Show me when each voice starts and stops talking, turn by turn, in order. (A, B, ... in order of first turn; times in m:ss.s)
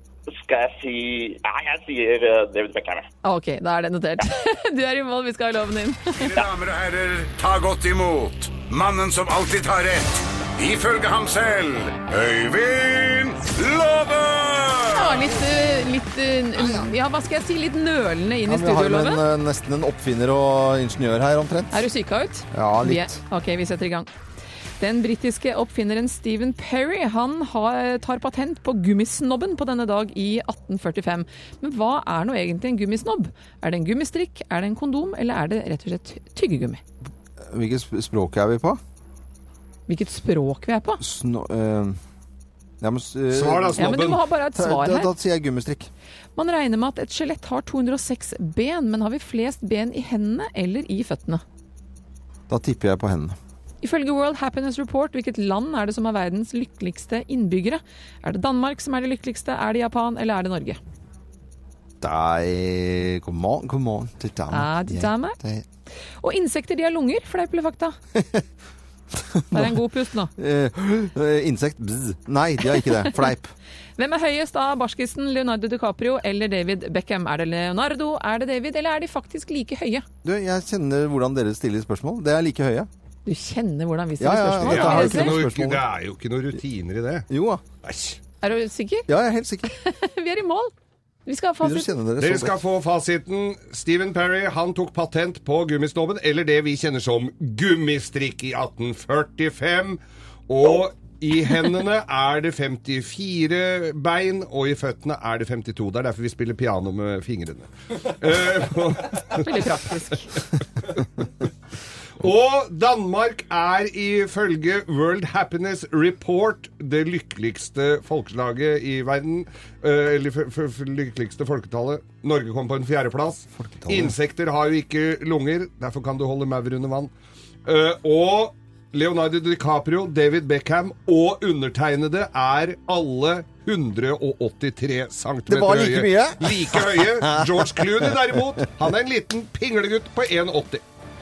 0:00.3-0:03.1 A
0:03.2-0:06.4 B
0:06.1-0:15.2 C
0:14.9-0:19.2 B
0:16.5-0:16.9 D
0:18.5-0:21.8 D
0:21.7-0:24.1 B
0:22.5-0:23.2 D
0:24.8-0:36.8 B
0:37.4-0:38.8 D
0:39.9-0:41.0 B
0:41.0-0:42.0 D
0:42.8-0:45.9 D
0:43.3-0:44.2 E
0:43.8-0:45.1 B
0:46.4-0:51.4 B
0:52.5-0:53.4 D
0:53.8-1:00.8 B
1:02.0-1:05.6 D
1:04.5-1:05.4 B
1:06.2-1:08.0 B
1:08.1-1:08.4 D
1:09.1-1:09.8 D
1:09.5-1:10.3 B
1:10.4-1:13.5 D
1:14.0-1:20.0 B
1:20.2-1:22.9 D
1:23.2-1:25.4 B
1:24.2-1:25.8 D
1:24.6-1:27.3 E
1:27.3-1:27.6 D
1:27.8-1:28.2 E
1:28.4-1:29.1 B
1:29.1-1:29.7 D
1:29.7-1:30.7 B
1:31.2-1:31.9 B
1:31.6-1:32.6 D
1:32.2-1:49.6 E
1:49.3-1:50.3 B
1:51.0-1:51.2 E
1:52.2-2:07.1 E
2:03.6-2:04.1 D
2:07.6-2:20.8 E
2:15.5-2:18.1 D